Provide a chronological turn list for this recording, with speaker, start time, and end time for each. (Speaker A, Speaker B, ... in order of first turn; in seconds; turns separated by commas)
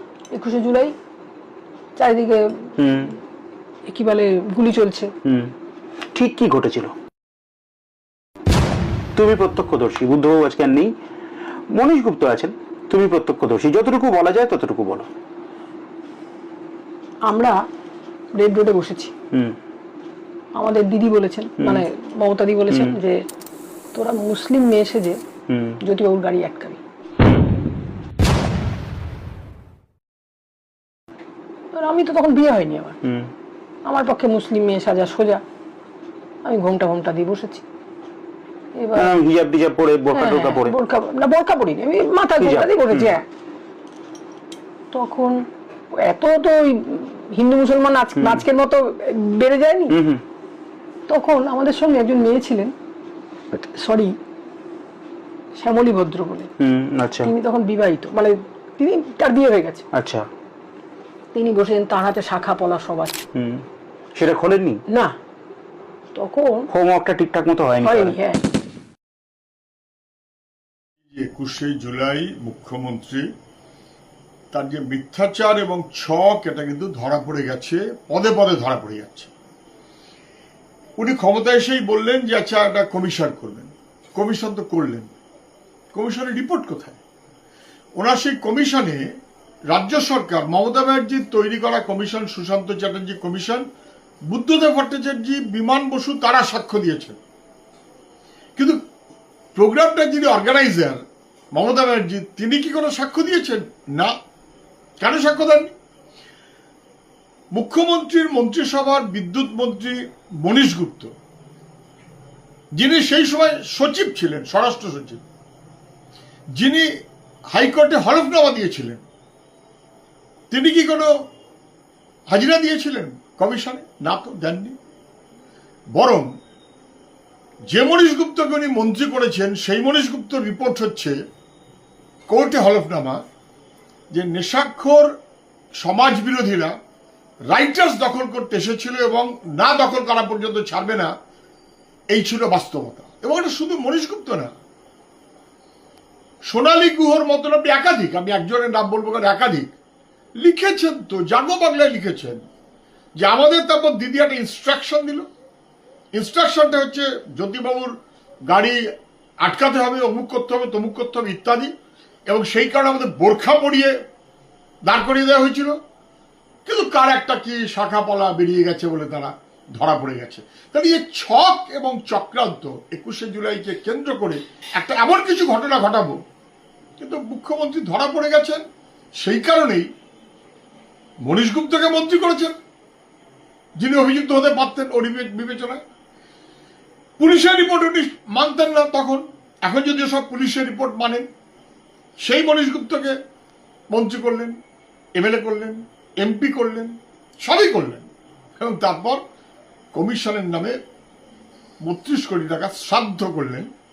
Speaker A: 0.3-0.9, Speaker A: 2.0-2.7, Speaker B: 2.8-3.1, Speaker A: 3.9-5.1, Speaker B: 5.2-5.5, Speaker B: 6.2-6.9, Speaker B: 9.2-10.9, Speaker B: 11.7-15.1, Speaker A: 17.3-17.6, Speaker A: 18.3-19.1, Speaker A: 20.6-23.2, Speaker B: 22.7-22.9, Speaker A: 23.9-25.2, Speaker B: 25.5-25.8, Speaker A: 25.8-26.8, Speaker A: 31.7-33.0, Speaker B: 33.0-33.3, Speaker A: 33.9-35.4, Speaker A: 36.5-37.6, Speaker A: 38.8-39.1, Speaker B: 39.0-40.8, Speaker A: 40.1-43.2, Speaker B: 42.4-43.1, Speaker A: 44.9-45.4, Speaker A: 46.0-50.0, Speaker B: 48.2-48.4, Speaker B: 49.9-50.2, Speaker A: 51.1-52.7, Speaker A: 53.5-54.1, Speaker A: 55.6-56.5, Speaker B: 56.6-57.3, Speaker A: 57.2-59.8, Speaker B: 59.9-60.3, Speaker A: 61.3-63.2, Speaker B: 63.4-63.6, Speaker B: 64.2-64.8, Speaker A: 64.9-65.2, Speaker A: 66.1-66.7, Speaker B: 66.7-68.2, Speaker A: 67.8-68.4, Speaker C: 71.1-73.3, Speaker C: 74.5-79.3, Speaker C: 81.0-85.1, Speaker C: 85.9-87.0, Speaker C: 88.0-89.1, Speaker C: 89.7-93.7, Speaker C: 94.3-97.2, Speaker C: 99.6-101.0, Speaker C: 101.5-104.1, Speaker C: 105.0-105.7, Speaker C: 107.5-111.1, Speaker C: 112.8-115.2, Speaker C: 116.6-116.9, Speaker C: 117.5-119.0, Speaker C: 120.5-121.1, Speaker C: 122.3-124.8, Speaker C: 125.9-126.3, Speaker C: 127.7-131.2, Speaker C: 132.3-133.2, Speaker C: 134.1-135.2, Speaker C: 135.8-136.8, Speaker C: 137.5-141.1, Speaker C: 142.1-144.5, Speaker C: 146.5-149.7, Speaker C: 150.4-152.4, Speaker C: 153.2-155.3, Speaker C: 156.1-158.0, Speaker C: 158.5-158.8, Speaker C: 159.4-161.7, Speaker C: 162.3-163.9, Speaker C: 164.8-165.8, Speaker C: 166.7-176.2, Speaker C: 177.0-178.6, Speaker C: 179.2-179.9, Speaker C: 181.2-182.5, Speaker C: 183.8-185.8, Speaker C: 187.2-191.3, Speaker C: 192.2-193.2, Speaker C: 193.9-194.6, Speaker C: 195.2-199.2, Speaker C: 199.9-200.8, Speaker C: 201.8-203.7